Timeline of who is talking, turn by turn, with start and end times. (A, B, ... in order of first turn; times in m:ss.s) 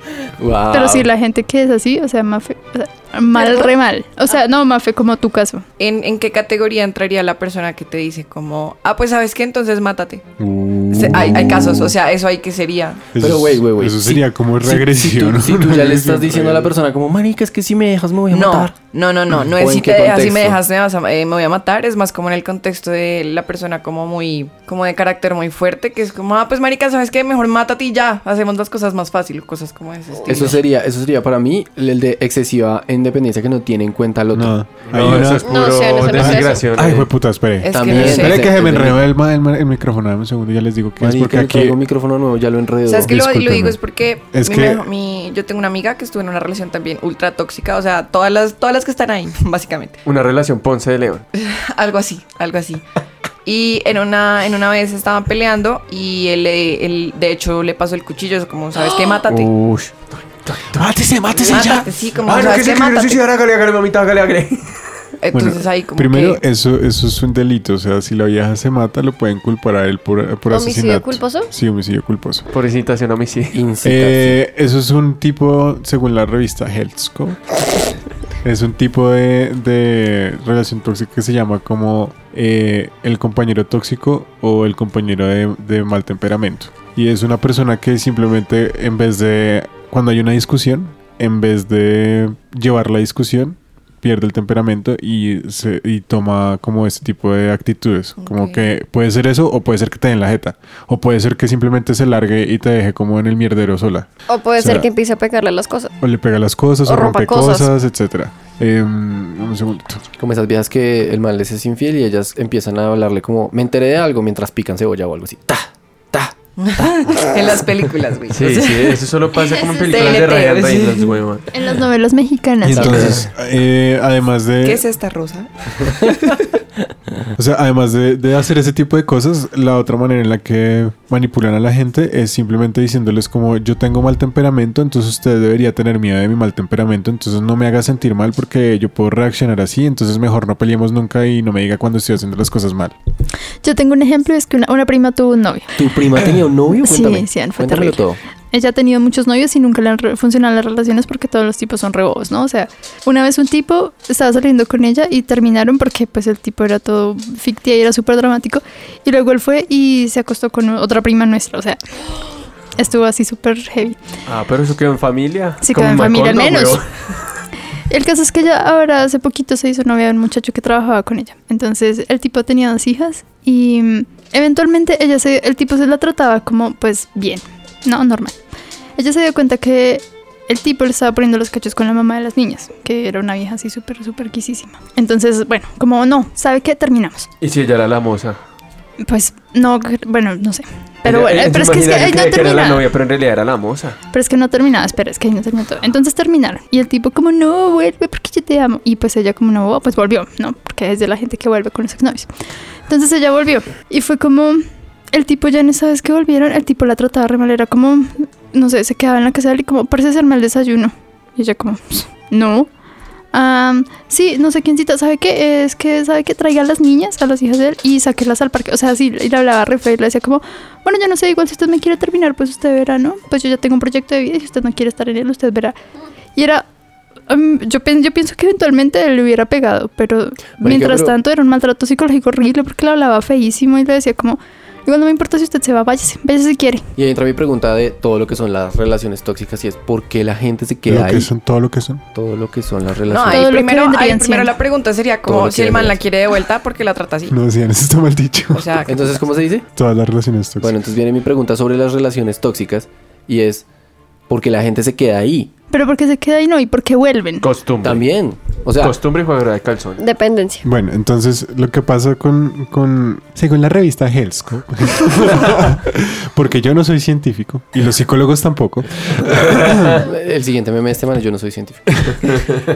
0:00.4-0:01.1 A
0:00.7-0:05.6 B
0:03.4-0:03.7 C
0:05.8-0:10.3 C
0:10.4-0:11.9 D
0:10.9-0:13.1 C
0:13.1-0:16.7 D
0:13.2-0:18.8 A
0:18.3-0:30.6 C
0:19.4-0:20.6 A
0:30.2-0:30.5 E
0:30.3-0:35.2 A
0:34.3-0:41.8 D
0:34.8-0:37.1 F
0:35.3-0:36.7 E
0:37.6-0:38.5 C
0:37.7-0:39.0 A
0:41.0-0:43.1 A
0:42.9-0:50.0 C
0:43.0-0:43.8 D
0:44.3-0:44.8 D
0:50.0-0:51.2 F
0:51.4-0:52.8 C
0:53.4-0:59.5 C
0:58.8-1:04.8 F
1:00.8-1:01.8 D
1:01.4-1:03.2 C
1:05.2-1:06.4 C
1:05.3-1:12.5 D
1:10.5-1:11.5 E
1:12.5-1:13.6 F
1:13.5-1:14.4 A
1:13.8-1:17.4 D
1:18.4-1:44.9 D
1:38.2-1:38.7 C
1:44.3-1:45.9 E
1:46.0-1:50.0 D
1:46.8-1:47.7 E
1:50.2-1:57.6 A
1:56.6-2:01.2 C
1:58.3-2:01.4 F
2:01.5-2:03.1 B
2:02.6-2:04.8 D
2:02.8-2:03.2 A
2:04.6-2:06.4 C
2:07.4-2:23.0 D
2:23.6-2:25.7 B
2:25.8-2:28.2 A
2:26.8-2:28.0 B
2:28.5-2:41.8 B
2:42.8-2:44.0 B
2:44.3-2:46.9 F
2:45.6-2:46.8 B
2:47.9-2:58.4 B
2:59.0-3:07.3 B
3:07.4-3:08.4 F
3:09.0-3:12.8 B
3:11.0-3:14.0 F
3:14.1-3:22.3 B
3:22.9-3:24.6 B
3:25.1-3:32.7 B
3:33.3-3:45.7 B
3:46.4-3:46.6 B
3:47.3-3:56.8 B
3:50.6-3:51.1 A
3:57.0-4:01.3 A
4:00.8-4:02.0 D
4:02.1-4:03.5 A
4:03.1-4:07.4 C
4:03.3-4:04.5 B
4:05.2-4:06.0 A
4:07.3-4:08.8 D
4:08.5-4:09.2 C
4:08.9-4:09.6 A
4:09.7-4:10.7 D
4:10.6-4:13.6 A
4:14.3-4:15.5 A
4:15.7-4:17.4 B
4:17.4-4:18.0 F
4:17.8-4:19.0 A
4:18.8-4:20.0 F
4:20.0-4:20.6 E
4:20.6-4:30.0 D
4:29.6-4:32.5 A